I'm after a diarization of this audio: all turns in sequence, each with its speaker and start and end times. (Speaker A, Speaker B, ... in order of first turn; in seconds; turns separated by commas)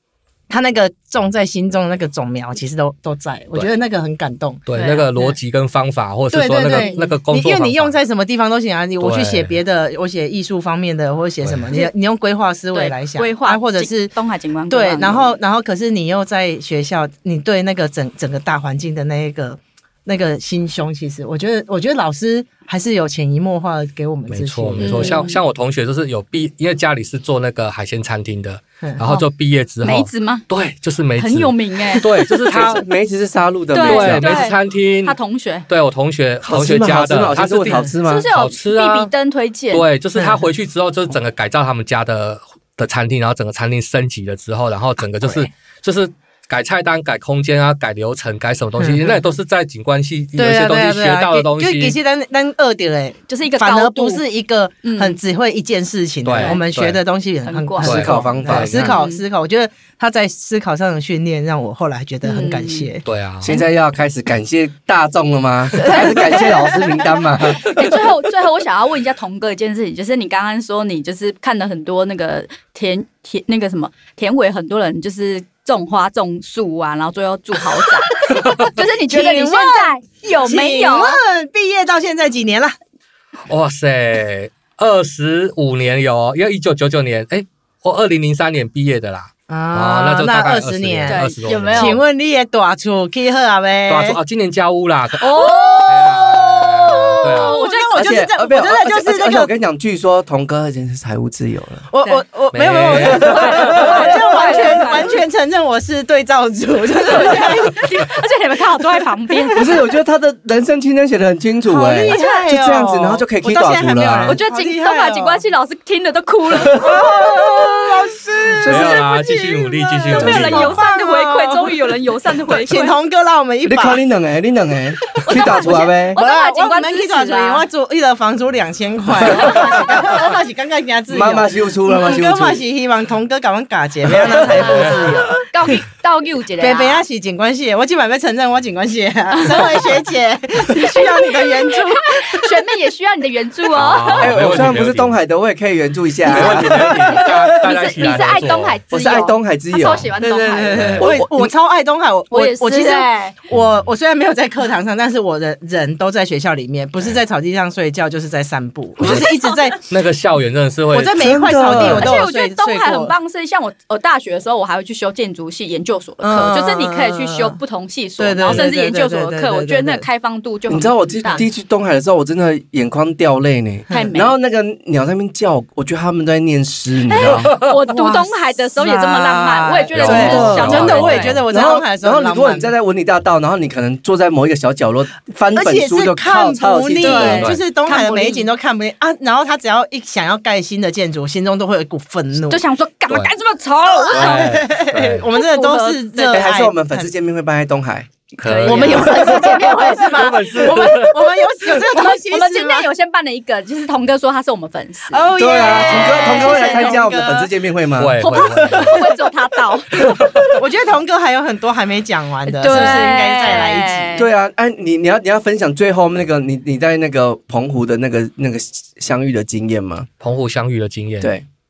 Speaker A: 0.5-4.6, Speaker B: 4.7-8.0, Speaker C: 4.7-5.3, Speaker A: 6.3-14.1, Speaker C: 6.7-7.2, Speaker B: 9.0-9.5, Speaker C: 12.7-15.3, Speaker A: 14.7-25.2, Speaker B: 24.3-32.9, Speaker C: 24.8-25.4, Speaker C: 29.8-30.4, Speaker C: 31.2-32.1, Speaker D: 32.5-34.4, Speaker C: 33.7-35.7, Speaker B: 33.8-35.2, Speaker B: 35.7-39.1, Speaker D: 36.4-38.3, Speaker C: 38.0-39.9, Speaker B: 39.7-52.0, Speaker A: 40.2-40.4, Speaker A: 45.2-45.5, Speaker A: 48.8-49.2, Speaker A: 50.4-63.0, Speaker C: 53.3-54.2, Speaker C: 54.8-55.2, Speaker B: 56.2-57.0, Speaker C: 56.4-56.6, Speaker C: 57.5-58.1, Speaker D: 57.8-58.9, Speaker B: 57.8-58.9, Speaker C: 58.8-59.2, Speaker C: 62.2-62.9, Speaker B: 63.0-63.5, Speaker D: 63.4-67.9, Speaker A: 65.8-66.4, Speaker C: 65.8-81.2, Speaker A: 77.9-82.8, Speaker B: 83.5-92.0, Speaker A: 89.5-94.2, Speaker C: 91.1-92.0, Speaker B: 93.9-97.6, Speaker C: 95.2-98.2, Speaker A: 95.5-95.9, Speaker A: 96.8-99.5, Speaker D: 98.0-101.9, Speaker A: 101.9-108.1, Speaker B: 102.5-104.0, Speaker D: 103.0-104.0, Speaker C: 103.2-105.2, Speaker C: 107.1-109.8, Speaker D: 109.5-114.4, Speaker A: 111.7-115.4, Speaker C: 112.1-112.4, Speaker C: 114.2-117.9, Speaker A: 116.7-121.8, Speaker B: 118.6-120.8, Speaker D: 118.6-119.0, Speaker C: 120.0-123.0, Speaker A: 122.5-124.0, Speaker D: 123.7-126.2, Speaker C: 125.2-127.7, Speaker A: 125.3-135.4, Speaker D: 129.3-129.6, Speaker C: 129.3-130.0, Speaker D: 131.1-132.6, Speaker C: 134.4-137.0, Speaker A: 136.6-142.5, Speaker C: 139.5-139.8, Speaker C: 140.7-144.4, Speaker B: 143.7-145.2, Speaker D: 144.2-147.4, Speaker B: 146.2-148.8, Speaker A: 146.4-147.0, Speaker C: 147.5-151.2, Speaker D: 148.9-150.1, Speaker A: 150.2-159.8, Speaker B: 150.8-151.1, Speaker D: 150.9-151.5, Speaker C: 152.3-153.3, Speaker B: 159.0-159.3, Speaker C: 159.0-159.5, Speaker B: 159.9-162.0, Speaker A: 160.9-163.1, Speaker D: 161.2-162.2, Speaker C: 161.7-171.4, Speaker A: 166.2-167.6, Speaker A: 168.2-170.1, Speaker D: 170.7-177.5, Speaker A: 173.9-174.3, Speaker C: 173.9-174.3, Speaker C: 177.1-181.4, Speaker A: 177.9-182.7, Speaker B: 179.9-181.4, Speaker D: 180.0-187.5, Speaker A: 185.5-192.6, Speaker C: 187.0-188.5, Speaker C: 192.5-194.6, Speaker A: 194.0-197.1, Speaker B: 194.1-195.3, Speaker C: 195.3-196.5, Speaker D: 196.3-198.1, Speaker B: 198.4-201.4, Speaker C: 198.4-200.8, Speaker A: 198.7-202.9, Speaker D: 199.0-199.4, Speaker C: 201.7-207.0, Speaker A: 205.1-207.5, Speaker D: 205.4-208.4, Speaker B: 208.0-209.1, Speaker C: 208.2-210.4, Speaker A: 208.7-209.1, Speaker B: 210.0-210.5, Speaker A: 210.5-214.3, Speaker C: 212.5-214.3, Speaker D: 212.7-213.1, Speaker D: 214.2-220.1, Speaker B: 220.2-221.3